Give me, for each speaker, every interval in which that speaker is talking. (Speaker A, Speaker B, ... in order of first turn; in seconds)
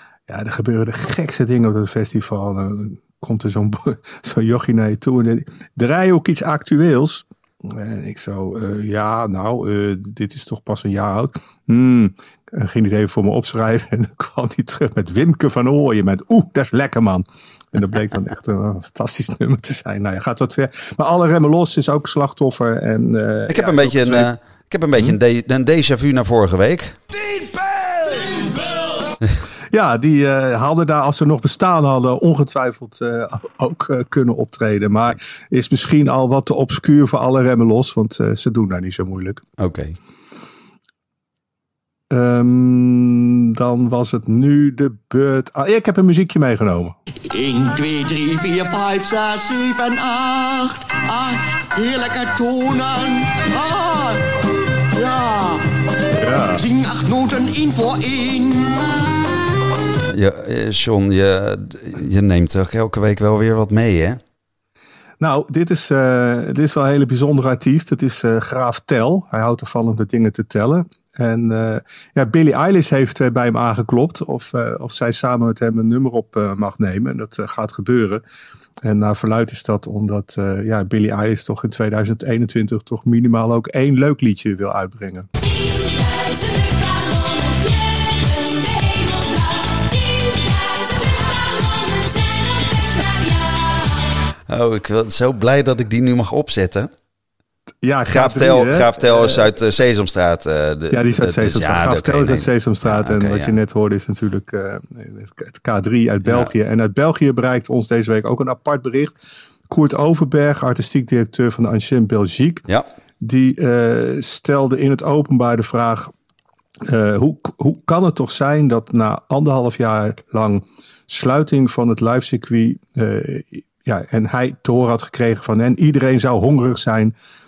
Speaker A: 0.3-24.3, 27.4-28.2, 29.7-39.4, 42.1-46.9, 56.2-56.7, 65.2-78.2, 78.8-85.3, 97.8-99.5, 100.9-109.1, 109.7-112.7, 113.2-116.1, 116.8-127.1
Speaker B: 23.5-27.0, 39.6-40.0, 60.1-64.2, 94.5-96.9, 98.1-103.6, 106.2-106.5
Speaker C: 47.2-56.0, 56.5-58.9